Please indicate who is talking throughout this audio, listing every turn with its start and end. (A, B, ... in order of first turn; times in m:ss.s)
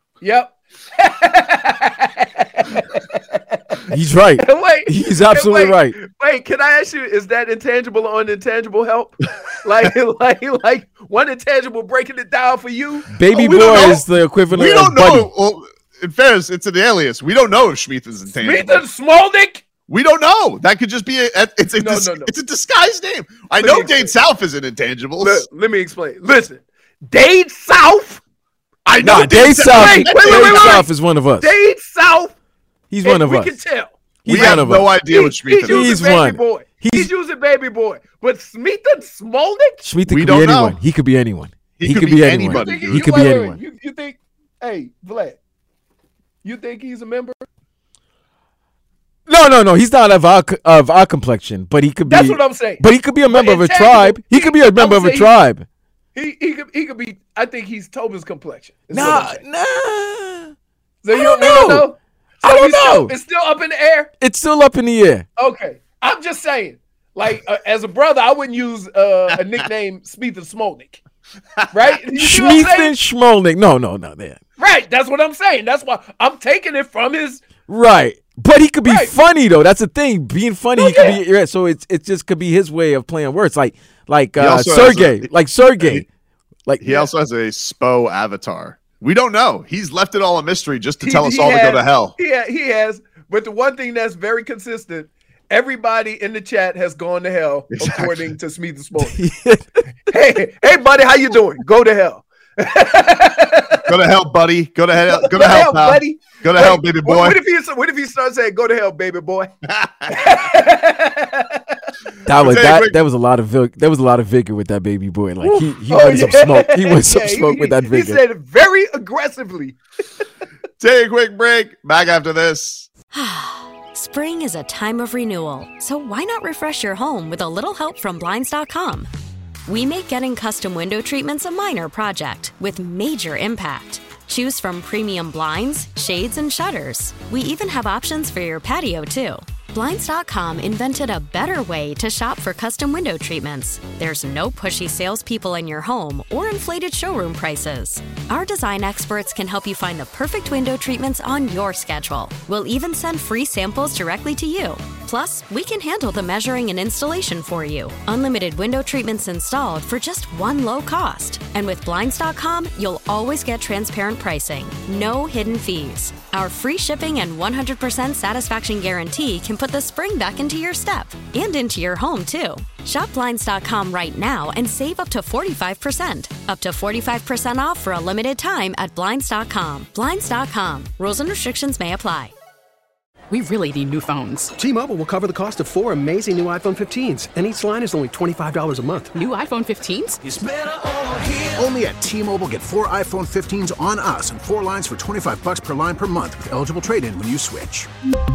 0:00.2-0:14.1 A
0:03.9-0:06.0 B
0:13.1-0:15.3 B
0:13.6-0:14.0 C
0:14.5-0:18.8 C
0:18.3-0:19.6 A
0:19.9-0:25.4 C
0:21.8-0:22.3 A
0:23.6-0:24.2 A
0:25.2-0:28.2 A
0:28.9-0:32.3 A
0:28.9-0:30.9 C
0:29.1-0:31.5 B
0:32.9-0:33.6 B
0:33.0-0:39.9 A
0:34.2-0:35.0 B
0:34.3-0:36.0 C
0:35.6-0:37.1 B
0:39.8-0:43.6 B
0:40.1-0:40.8 C
0:41.8-0:43.3 C
0:42.5-0:45.4 A
0:46.4-0:47.5 A
0:49.3-0:55.6 B
0:52.0-0:55.4 A
0:56.2-0:59.4 A
0:58.9-1:00.5 B
1:01.0-1:04.1 A
1:01.1-1:01.9 B
1:02.4-1:03.1 B
1:04.2-1:05.2 B
1:05.4-1:11.0 A
1:11.7-1:13.0 A
1:12.2-1:14.4 B
1:14.6-1:17.6 A
1:17.7-1:26.1 B
1:18.8-1:19.1 A
1:20.8-1:21.2 A
1:24.4-1:26.0 C
1:26.8-1:32.2 C
1:31.0-1:39.2 A
1:37.7-1:38.3 C
1:39.0-1:39.6 B
1:40.1-1:43.9 A
1:43.9-1:47.4 C
1:45.0-1:49.5 A
1:49.8-1:50.1 C
1:50.1-1:51.8 A
1:52.3-1:58.2 B
1:52.4-1:53.0 C
1:55.4-1:59.8 A
2:00.8-2:02.9 C
2:03.1-2:09.1 D
2:09.7-3:02.3 D
3:03.3-3:04.5 E
3:04.6-3:09.2 F
3:09.1-3:10.2 E
3:10.2-3:17.9 G